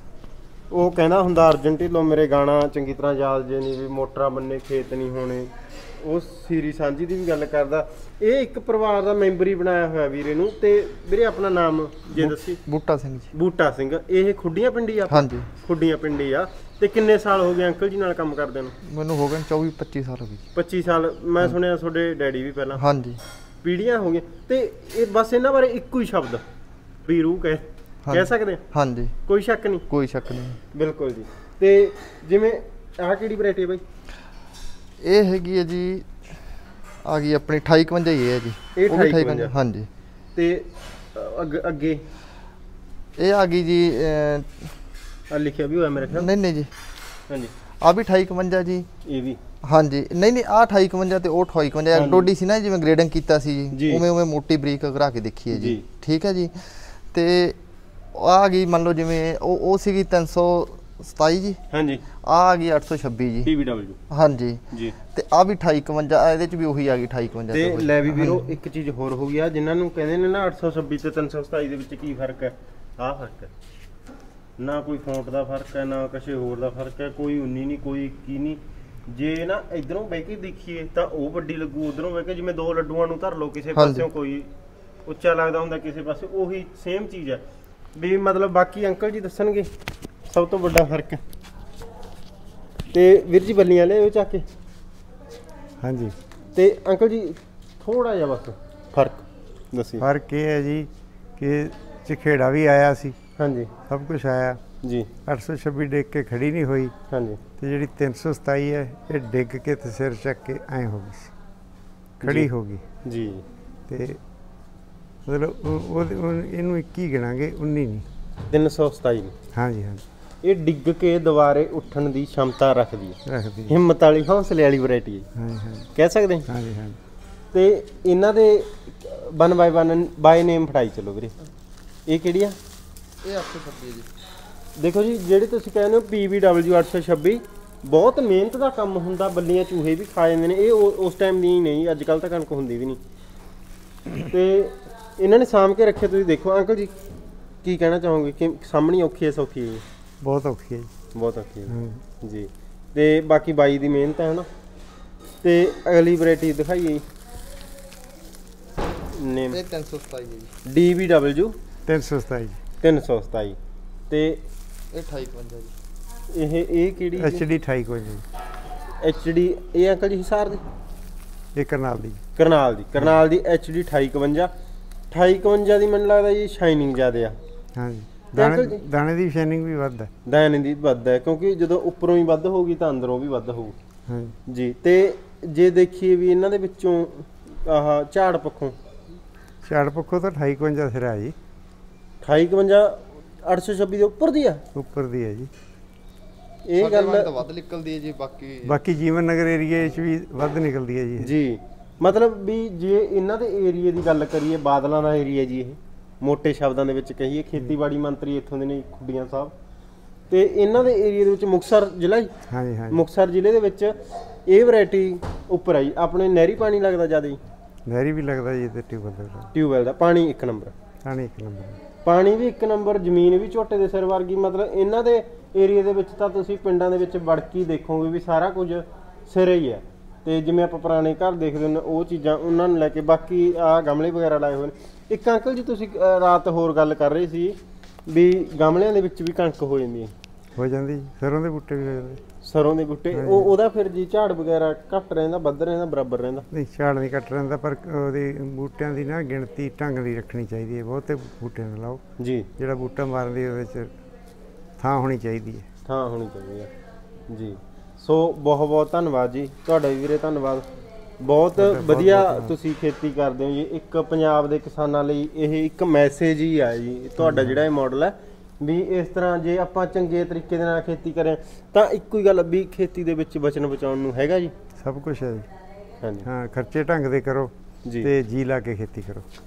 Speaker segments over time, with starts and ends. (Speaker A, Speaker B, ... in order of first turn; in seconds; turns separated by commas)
Speaker A: 0.7-12.6, Speaker B: 12.1-13.3, Speaker A: 13.3-18.7, Speaker B: 15.1-15.5, Speaker B: 18.8-20.4, Speaker A: 20.5-22.8, Speaker B: 22.7-23.2, Speaker A: 23.6-26.4, Speaker A: 27.1-28.6, Speaker B: 28.1-29.1, Speaker A: 29.2-29.8, Speaker B: 29.9-30.6, Speaker A: 30.7-33.8, Speaker B: 35.0-36.2, Speaker B: 37.0-39.9, Speaker A: 38.7-39.6, Speaker A: 40.3-42.0, Speaker B: 43.2-44.7, Speaker A: 45.3-46.3, Speaker B: 46.0-46.7, Speaker B: 47.8-48.9, Speaker A: 49.0-49.4, Speaker B: 49.6-57.6, Speaker A: 51.9-52.3, Speaker A: 53.7-54.0, Speaker A: 55.5-55.8, Speaker B: 58.1-61.6, Speaker A: 61.7-62.0, Speaker B: 62.2-63.5, Speaker A: 63.4-64.0, Speaker B: 64.1-68.5, Speaker A: 67.5-73.5, Speaker A: 74.6-84.5, Speaker B: 83.8-84.0, Speaker A: 85.0-87.4, Speaker A: 87.9-89.7, Speaker A: 90.3-91.2, Speaker A: 92.9-94.4, Speaker C: 95.8-96.1, Speaker A: 96.5-100.0, Speaker C: 100.0-103.2, Speaker A: 103.4-103.7, Speaker C: 103.9-104.6, Speaker A: 104.8-105.1, Speaker C: 105.2-106.9, Speaker A: 107.1-107.4, Speaker C: 107.6-111.3, Speaker A: 112.2-112.5, Speaker C: 112.2-112.8, Speaker A: 113.0-113.4, Speaker C: 113.9-114.2, Speaker C: 115.2-118.0, Speaker A: 118.5-119.3, Speaker C: 119.5-120.0, Speaker A: 120.4-125.3, Speaker C: 123.2-123.7, Speaker C: 125.3-125.9, Speaker A: 125.9-126.5, Speaker C: 126.5-127.0, Speaker A: 127.5-131.3, Speaker A: 132.1-132.6, Speaker B: 133.2-134.1, Speaker A: 134.8-143.0, Speaker A: 144.3-146.9, Speaker A: 147.6-149.8, Speaker C: 150.2-150.9, Speaker A: 151.1-154.5, Speaker C: 151.7-152.0, Speaker A: 155.4-157.0, Speaker A: 159.1-159.6, Speaker B: 159.5-160.5, Speaker A: 160.7-161.6, Speaker C: 161.8-162.6, Speaker A: 162.8-163.6, Speaker A: 164.1-164.4, Speaker B: 164.9-165.7, Speaker A: 166.3-167.4, Speaker C: 167.2-168.2, Speaker A: 169.0-170.6, Speaker C: 171.6-172.2, Speaker A: 172.3-174.5, Speaker A: 175.1-177.4, Speaker C: 177.8-180.1, Speaker A: 178.3-178.8, Speaker A: 180.2-183.7, Speaker C: 184.1-184.3, Speaker A: 184.5-188.7, Speaker C: 189.6-191.3, Speaker A: 192.2-194.6, Speaker C: 194.7-195.5, Speaker A: 196.7-197.4, Speaker B: 196.8-198.8, Speaker C: 198.6-201.3, Speaker A: 201.2-209.5, Speaker A: 210.3-212.3, Speaker C: 212.5-213.0, Speaker A: 212.9-217.4, Speaker C: 217.8-219.5, Speaker A: 219.5-220.7, Speaker C: 221.0-221.8, Speaker A: 222.0-237.6, Speaker A: 238.1-240.1, Speaker C: 240.6-242.2, Speaker A: 242.4-246.4, Speaker C: 243.1-243.5, Speaker C: 246.5-252.0, Speaker A: 252.2-252.5, Speaker C: 252.6-253.9, Speaker C: 254.8-255.7, Speaker A: 255.8-256.7, Speaker A: 257.3-260.6, Speaker A: 261.2-274.5, Speaker C: 261.6-262.5, Speaker C: 267.2-267.6, Speaker C: 274.8-275.5, Speaker A: 276.0-276.3, Speaker C: 276.2-279.2, Speaker A: 277.8-278.1